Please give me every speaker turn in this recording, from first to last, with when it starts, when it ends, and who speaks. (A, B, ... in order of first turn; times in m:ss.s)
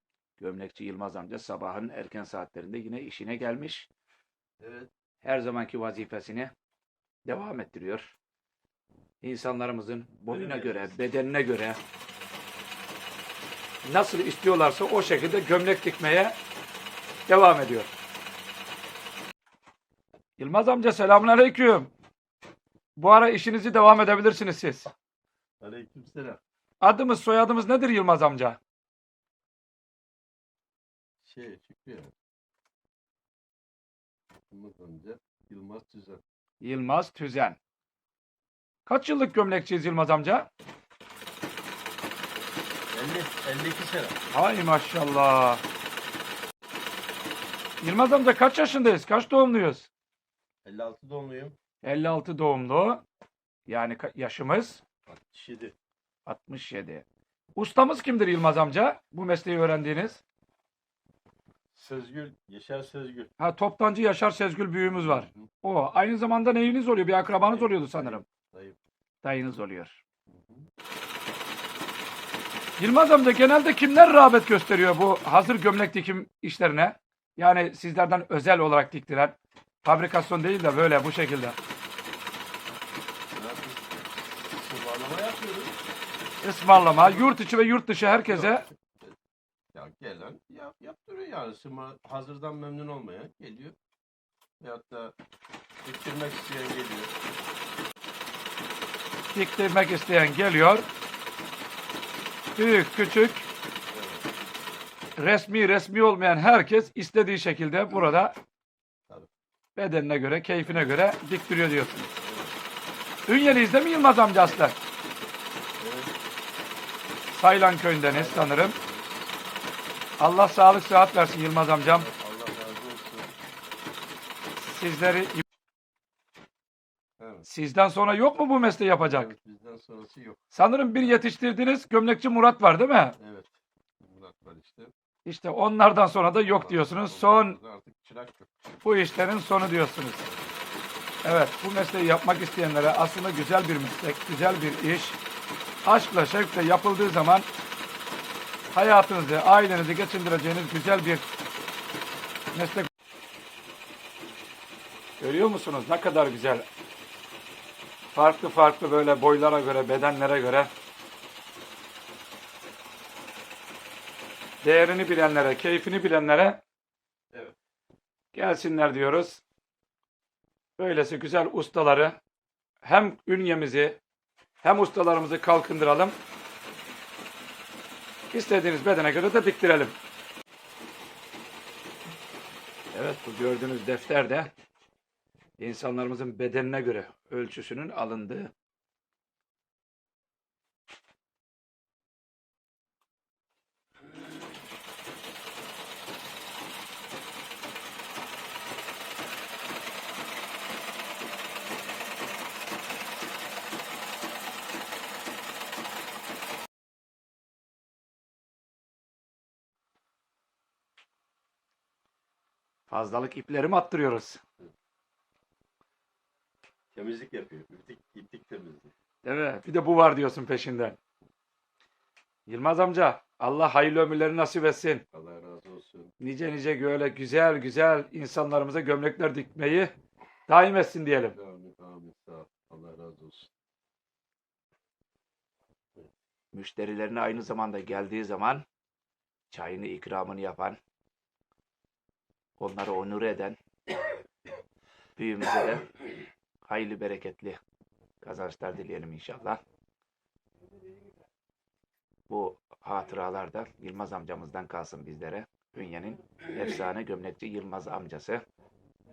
0:00.4-0:03.9 A
0:04.6-0:04.9 B
0:05.2-0:06.5 A
0:07.2-0:08.1 A
0:09.2-0:11.8 A
0:10.3-0:11.1 B
0:13.8-0:16.4 A
0:17.3-0:17.9 A
0:20.4-0:21.9 A
0:23.0-0:24.9 A
0:25.6-0:26.4 B
0:26.8-0:28.6 A
0:31.2-0:32.1 B
0:34.5-0:36.2 B
0:36.6-0:37.6 A
0:38.9-0:40.5 A
0:42.9-0:44.2 B
0:44.3-0:45.6 A
0:47.8-0:49.9 A
0:50.6-0:51.6 B
0:51.8-0:53.0 A
0:53.7-0:54.8 A
0:55.1-0:55.8 B
0:56.3-0:57.0 A
0:57.6-1:00.2 A
1:01.7-1:03.3 B
1:03.4-1:08.2 A
1:05.0-1:05.5 B
1:07.3-1:08.8 B
1:09.2-1:10.0 A
1:10.3-1:10.6 B
1:12.8-1:21.6 A
1:23.3-1:25.8 B
1:26.4-1:28.7 A
1:27.0-1:27.3 B
1:28.2-1:29.2 B
1:29.7-1:33.8 B
1:34.6-1:35.1 B
1:35.8-1:37.1 B
1:39.3-1:40.9 A
1:42.6-1:43.5 A
1:43.9-1:44.2 B
1:45.2-1:48.4 A
1:49.8-1:52.1 A
1:52.2-1:52.6 B
1:53.3-1:54.8 A
1:55.8-1:56.1 B
1:57.3-1:58.8 A
1:58.1-1:59.3 B
2:00.2-2:02.1 A
2:01.9-2:03.3 B
2:04.6-2:05.4 A
2:07.2-2:07.5 B
2:07.5-2:09.3 A
2:09.0-2:10.4 B
2:10.5-2:13.2 A
2:13.2-2:14.9 B
2:15.3-2:17.6 A
2:16.5-2:18.5 B
2:18.8-2:20.3 A
2:21.2-2:25.2 A
2:25.8-2:27.5 A
2:28.7-2:31.2 A
2:32.5-2:32.9 A
2:35.2-2:36.7 A
2:38.1-2:40.7 A
2:44.6-2:46.6 A
2:48.3-2:49.4 A
2:50.8-2:52.2 A
2:52.8-2:54.0 A
2:54.6-2:56.2 A
2:58.3-3:00.0 A
3:02.9-3:04.5 A
3:05.6-3:08.5 A
3:32.9-3:34.4 A
3:36.9-3:38.9 B
3:39.2-3:41.0 A
3:42.5-3:45.0 A
3:45.1-3:46.1 B
3:46.2-3:49.9 A
3:50.5-3:51.4 A
3:51.3-3:53.5 B
3:56.5-3:58.6 A
3:59.5-4:00.8 A
4:02.6-4:03.6 A
4:05.2-4:05.9 A
4:06.7-4:07.6 A
4:08.2-4:09.6 A
4:12.3-4:18.4 A